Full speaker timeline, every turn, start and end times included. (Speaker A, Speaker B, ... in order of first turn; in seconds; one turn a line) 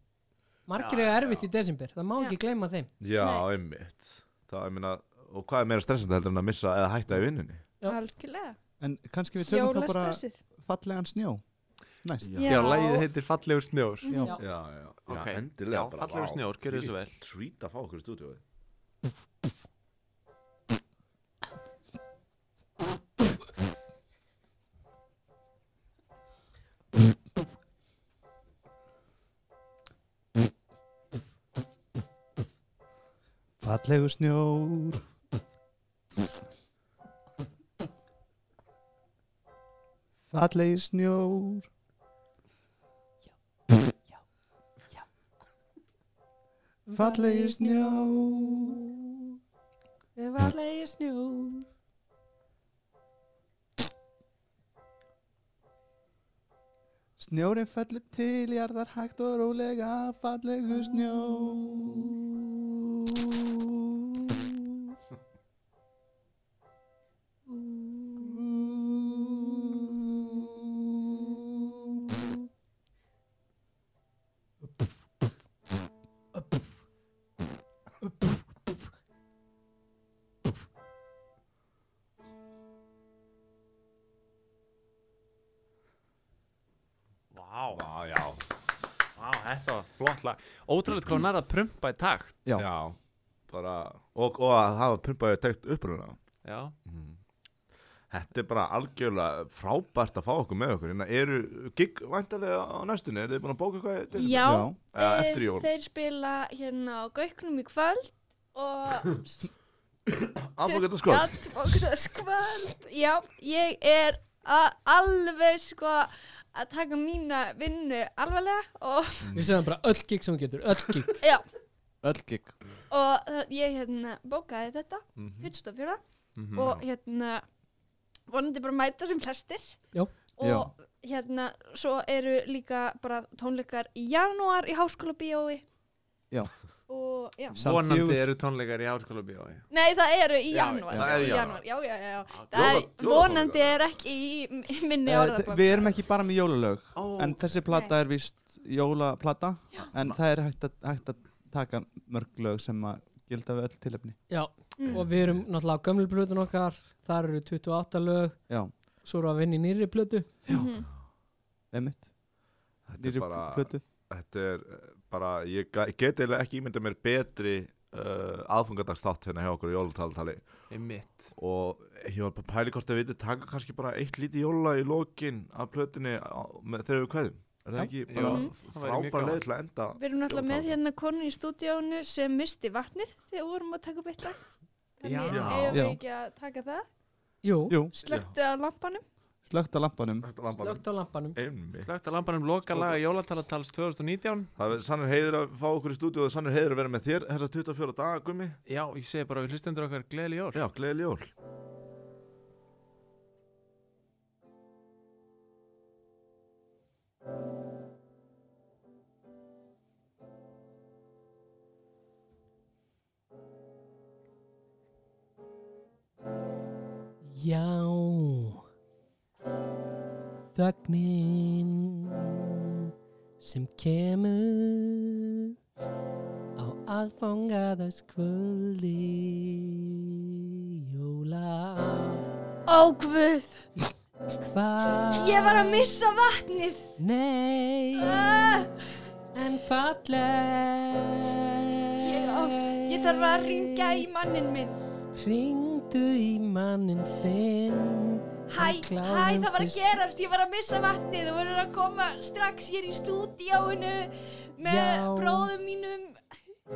Speaker A: 0.7-2.9
Speaker B: 0.8-1.4
Speaker C: 3.0-7.6
Speaker D: 3.2-3.5
Speaker D: 7.8-8.6
Speaker E: 8.8-11.4
Speaker D: 9.4-10.3
Speaker E: 12.0-12.4
Speaker C: 12.2-12.8
Speaker D: 12.4-13.1
Speaker B: 12.4-14.1
Speaker D: 14.0-14.4
Speaker A: 14.2-14.4
Speaker C: 14.4-18.4
Speaker B: 15.1-17.1
Speaker E: 33.6-35.0
Speaker E: 40.3-41.7
Speaker A: 43.9-44.2
Speaker A: 46.9-49.4
Speaker E: 46.9-48.8
Speaker A: 50.2-51.7
Speaker E: 57.2-62.1
Speaker A: 60.9-63.2
Speaker A: 64.2-64.6
Speaker A: 67.5-72.4
Speaker E: 68.5-69.2
Speaker A: 76.3-76.7
Speaker A: 78.0-78.7
Speaker B: 87.3-87.8
Speaker C: 87.7-88.4
Speaker B: 89.2-92.4
Speaker C: 92.5-93.0
Speaker C: 93.5-96.2
Speaker B: 96.4-96.8
Speaker C: 96.9-97.2
Speaker C: 98.1-105.7
Speaker D: 104.1-109.3
Speaker E: 104.4-104.8
Speaker C: 110.1-111.5
Speaker D: 110.7-119.3
Speaker C: 119.2-119.6
Speaker A: 119.3-121.2
Speaker E: 122.0-122.5
Speaker D: 122.9-126.0
Speaker C: 125.2-125.5
Speaker B: 126.4-126.8
Speaker D: 126.5-127.5
Speaker D: 128.3-129.8
Speaker D: 130.4-135.6
Speaker E: 130.4-130.7
Speaker D: 136.9-137.6
Speaker E: 137.5-138.3
Speaker B: 137.6-139.7
Speaker D: 139.7-146.0
Speaker B: 140.5-141.6
Speaker C: 140.9-141.6
Speaker C: 142.5-143.9
Speaker E: 145.1-154.2
Speaker B: 147.0-147.5
Speaker A: 154.3-158.4
Speaker D: 154.8-155.0
Speaker C: 154.9-155.3
Speaker A: 159.0-160.3
Speaker D: 160.5-160.9
Speaker E: 161.7-162.1
Speaker C: 162.9-170.5
Speaker E: 163.0-163.8
Speaker B: 170.7-171.3
Speaker C: 171.4-180.8
Speaker B: 178.1-179.4
Speaker D: 178.2-178.5
Speaker D: 180.0-184.4
Speaker D: 185.0-186.9
Speaker B: 185.0-185.8
Speaker C: 185.3-185.8
Speaker E: 185.7-186.0
Speaker A: 187.4-187.8
Speaker E: 187.7-187.9
Speaker D: 187.9-189.0
Speaker C: 188.1-188.3
Speaker E: 189.4-190.3
Speaker C: 190.2-191.9
Speaker A: 190.5-191.4
Speaker B: 191.7-194.5
Speaker C: 192.7-193.0
Speaker C: 194.6-198.6
Speaker B: 198.7-200.6
Speaker C: 200.5-201.3
Speaker A: 217.2-218.6
Speaker A: 220.6-222.9
Speaker A: 223.4-225.5
Speaker A: 226.6-232.3
Speaker D: 232.7-233.7
Speaker A: 234.4-235.9
Speaker D: 235.0-236.9
Speaker A: 237.0-238.7
Speaker D: 238.0-238.7
Speaker A: 239.3-244.1
Speaker D: 242.0-244.8
Speaker A: 245.2-250.0
Speaker D: 248.5-256.2
Speaker A: 254.6-255.5